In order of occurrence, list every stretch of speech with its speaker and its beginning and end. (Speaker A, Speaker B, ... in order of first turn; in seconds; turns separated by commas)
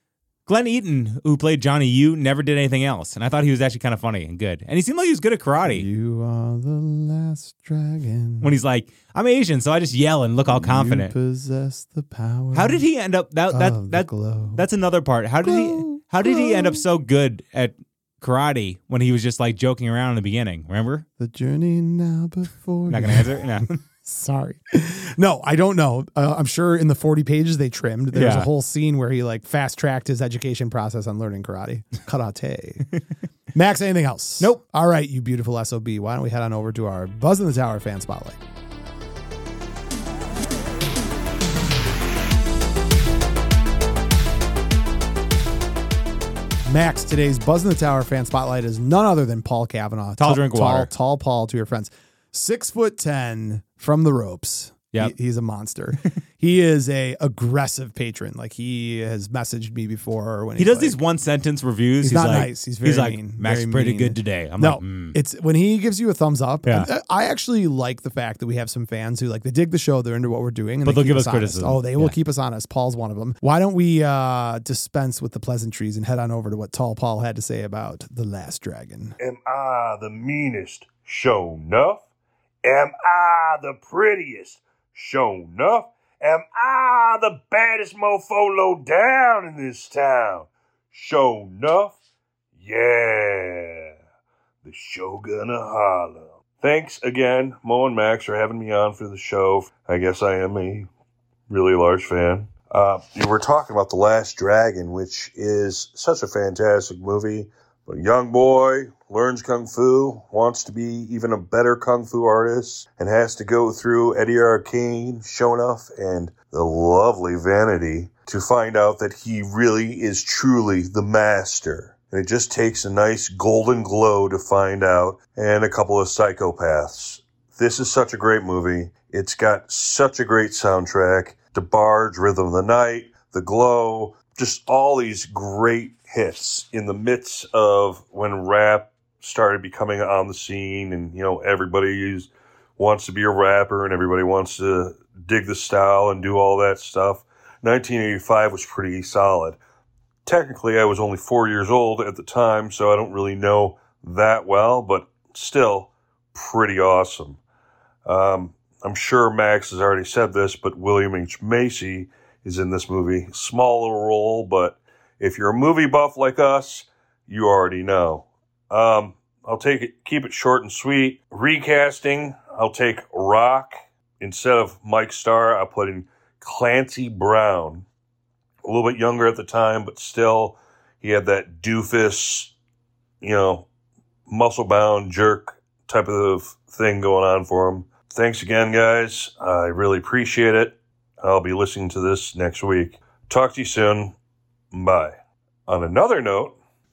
Speaker A: 0.5-5.9, Speaker B: 5.7-8.5, Speaker A: 8.4-11.1, Speaker B: 10.5-12.8, Speaker A: 12.5-21.1, Speaker B: 13.5-14.6, Speaker B: 15.4-16.8, Speaker B: 21.2-32.9, Speaker A: 22.9-23.8, Speaker A: 28.1-28.5, Speaker B: 33.5-38.4, Speaker B: 46.6-61.0, Speaker A: 50.2-50.9, Speaker A: 60.6-65.2, Speaker B: 62.0-79.2, Speaker A: 70.8-72.1, Speaker C: 79.2-82.0, Speaker C: 82.6-92.0, Speaker C: 92.6-94.0, Speaker C: 94.6-100.9, Speaker C: 101.5-149.6, Speaker C: 150.3-157.4, Speaker C: 158.1-177.9, Speaker C: 178.6-182.5, Speaker C: 183.2-183.7, Speaker C: 184.3-194.1, Speaker C: 194.7-195.1, Speaker C: 195.7-196.6